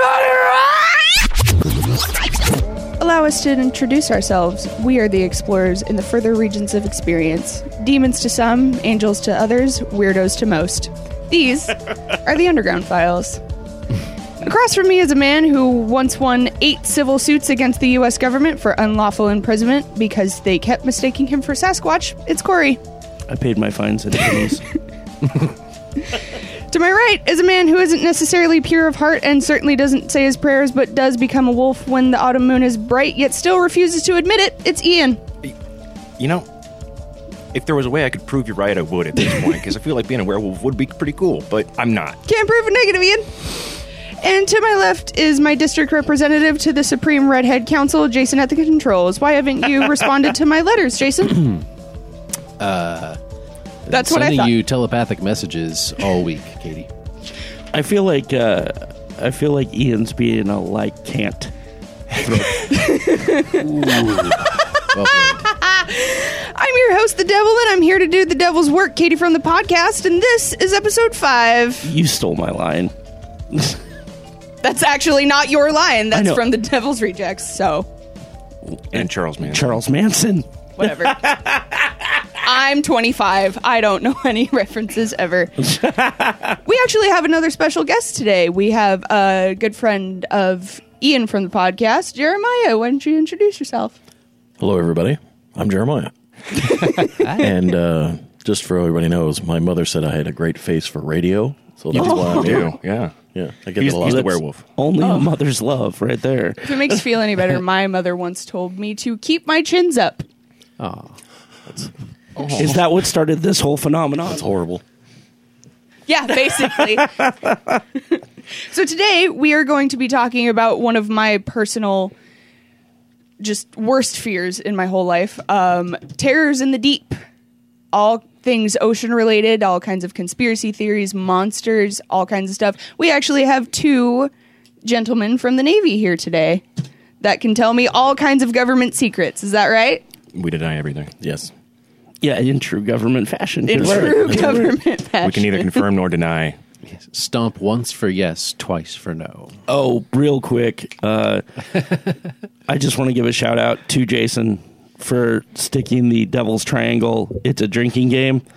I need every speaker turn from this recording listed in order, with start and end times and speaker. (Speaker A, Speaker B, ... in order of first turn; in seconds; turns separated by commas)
Speaker A: 3.0-13.4, Speaker A: 14.4-22.8, Speaker B: 23.3-24.6, Speaker A: 26.7-35.2, Speaker C: 36.2-36.5, Speaker C: 37.5-42.2, Speaker A: 42.2-51.5, Speaker D: 52.6-53.2, Speaker D: 53.9-56.9, Speaker A: 53.9-54.6, Speaker B: 57.7-61.5, Speaker B: 62.1-62.8, Speaker A: 62.7-63.7, Speaker D: 63.8-65.5, Speaker A: 64.7-71.8, Speaker B: 71.8-72.9, Speaker B: 73.5-73.8, Speaker A: 74.6-77.9, Speaker B: 76.1-76.4, Speaker C: 78.9-79.8, Speaker B: 78.9-82.1, Speaker A: 80.8-81.2, Speaker A: 82.4-85.7, Speaker B: 85.7-86.6, Speaker A: 86.6-94.0, Speaker E: 94.6-96.1, Speaker A: 96.7-97.1, Speaker E: 97.4-102.7, Speaker C: 101.9-104.7, Speaker A: 101.9-102.6, Speaker E: 103.3-104.4, Speaker B: 104.0-107.0, Speaker A: 105.0-105.3, Speaker A: 106.6-110.2, Speaker D: 110.8-111.1, Speaker B: 112.6-114.4, Speaker E: 114.2-114.8, Speaker A: 116.1-117.2, Speaker B: 116.7-117.8, Speaker A: 118.7-122.1, Speaker A: 123.4-127.2, Speaker A: 127.9-134.3, Speaker A: 134.8-136.6, Speaker A: 137.2-140.0, Speaker C: 140.3-141.1, Speaker E: 141.2-141.5, Speaker B: 142.2-144.6, Speaker A: 143.7-145.8, Speaker E: 143.8-144.7, Speaker C: 145.2-146.6, Speaker D: 146.9-149.5, Speaker B: 149.7-151.4, Speaker B: 152.7-158.4